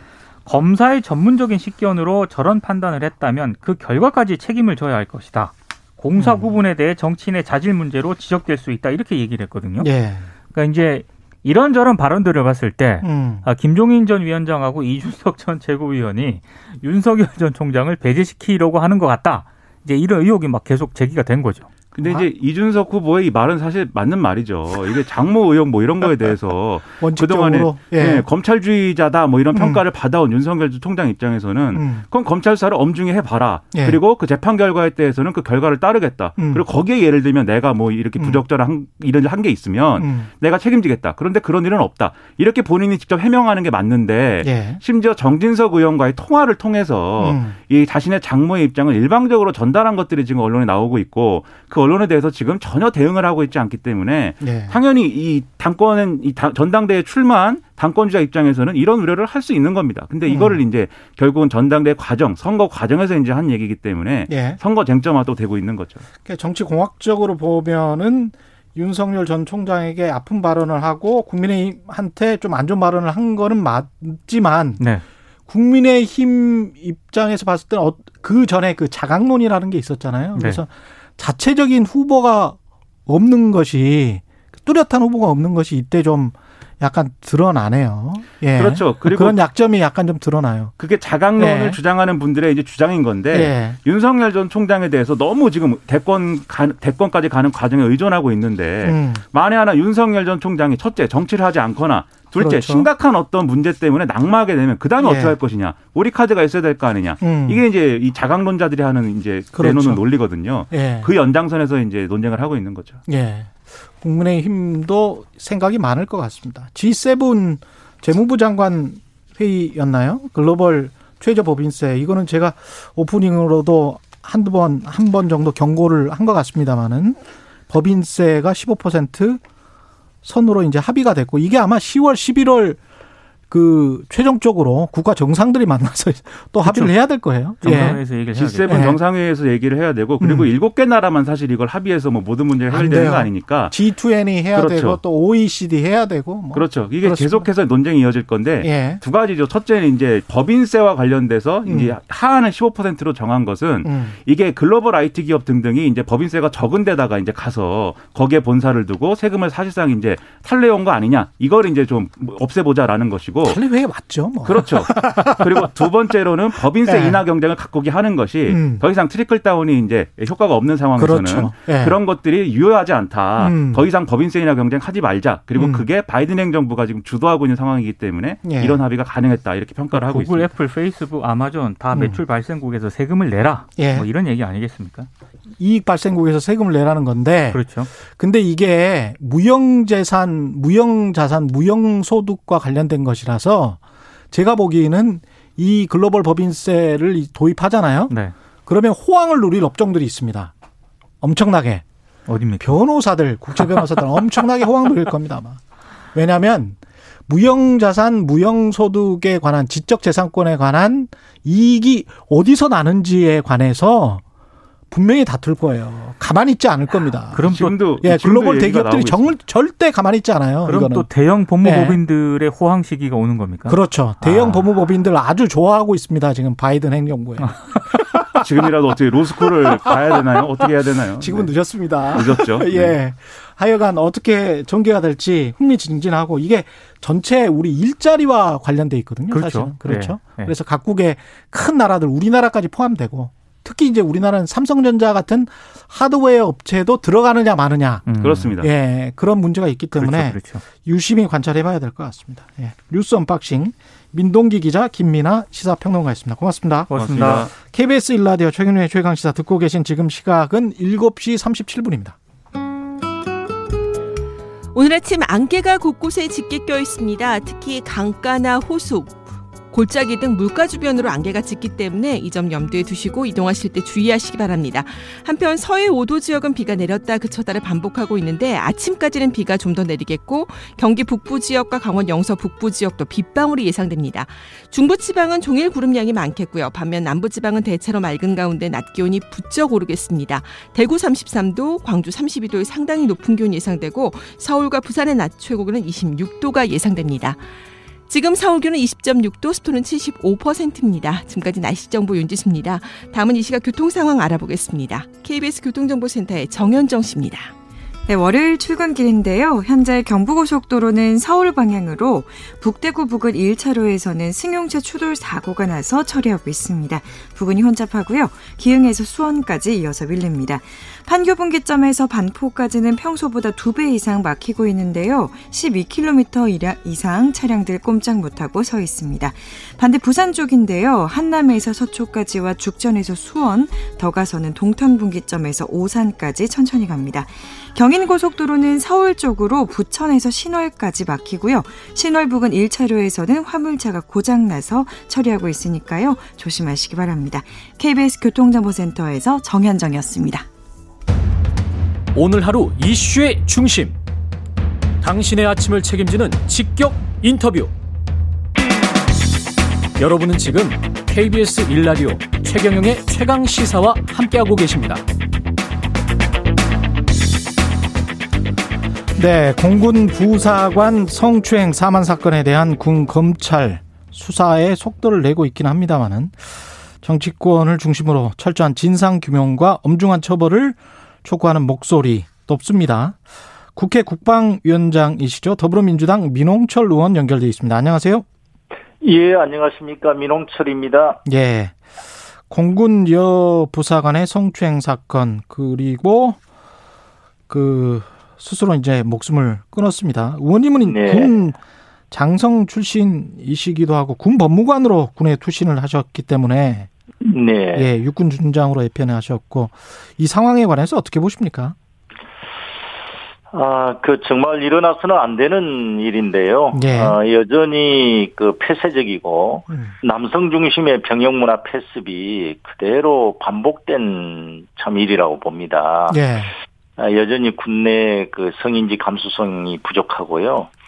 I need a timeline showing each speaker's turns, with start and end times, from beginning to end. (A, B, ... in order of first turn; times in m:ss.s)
0:00.5-0:09.9 A
0:06.2-0:06.6 B
0:09.8-0:10.3 B
0:10.5-0:21.7 A
0:13.0-0:13.5 B
0:21.9-1:06.0 C
0:27.0-0:28.3 B
0:29.5-0:29.8 B
0:31.7-0:32.0 B
0:33.7-0:34.0 B
0:36.4-0:36.6 B
0:38.2-0:38.4 B
0:40.0-0:40.3 B
0:44.4-0:44.8 B
0:47.2-0:47.6 B
0:54.4-0:54.8 B
1:00.3-1:00.6 B
1:04.3-1:04.6 B
1:06.2-1:14.8 B
1:14.8-1:15.0 A
1:15.5-1:30.7 B
1:20.4-1:20.6 A
1:28.6-1:29.4 C
1:30.8-1:53.0 C
1:31.4-1:31.8 B
1:33.3-1:33.8 B
1:38.8-1:39.2 B
1:42.4-1:42.9 B
1:45.0-1:45.4 B
1:47.2-1:47.6 B
1:49.6-1:51.1 B
1:53.1-2:09.4 B
2:10.2-2:12.8 B
2:13.5-2:19.0 B
2:16.6-2:16.9 A
2:17.6-2:18.9 A
2:17.7-2:23.8 C
2:20.2-2:20.5 B
2:22.7-2:27.5 B
2:24.5-2:25.0 C
2:26.5-2:43.6 C
2:28.6-2:29.0 B
2:31.6-2:32.0 B
2:33.8-2:34.2 B
2:43.4-2:45.7 B
2:44.4-3:00.5 C
2:46.8-2:47.2 B
2:48.5-2:48.8 B
2:51.0-2:52.0 B
2:53.4-2:53.9 B
2:55.6-2:55.9 B
2:58.4-2:58.8 B
2:59.9-3:05.1 A
3:01.9-3:02.2 B
3:03.8-3:04.1 B
3:05.6-3:13.8 B
3:07.5-3:07.9 A
3:14.3-3:18.1 B
3:18.7-3:20.5 B
3:21.2-3:21.8 B
3:22.3-3:22.8 A
3:22.6-3:25.6 B
3:23.6-3:23.9 A
3:26.1-3:34.2 B
3:34.9-3:41.1 B
3:37.3-3:37.8 A
3:37.4-3:39.4 C
3:40.7-3:44.6 A
3:41.6-3:42.0 B
3:43.7-3:48.2 B
3:48.4-3:52.9 C
3:49.6-3:50.4 B
3:51.2-4:08.1 B
3:59.3-4:00.5 A
4:08.1-4:08.6 A
4:08.2-4:08.7 C
4:08.6-4:16.9 B
4:10.0-4:10.6 A
4:16.9-4:17.5 A
4:16.9-4:17.5 C
4:17.5-4:22.2 B
4:24.7-4:29.2 D
4:29.7-4:57.4 D
4:58.1-5:07.5 D
5:08.1-5:50.5 E
5:52.1-5:54.0 F
5:55.0-5:57.7 F
6:00.0-6:05.0 F
6:09.2-6:16.4 B
6:17.0-6:23.2 B
6:23.8-6:28.3 B
6:29.0-6:31.2 G
6:31.3-6:31.8 B
6:32.5-6:36.4 B
6:37.5-6:41.6 B
6:40.8-6:41.3 G
6:42.1-6:46.9 B
6:47.2-6:47.9 G
6:47.7-6:51.8 B
6:53.5-7:06.2 G
6:56.7-6:57.2 B
7:06.1-7:06.5 B
7:07.0-7:10.7 G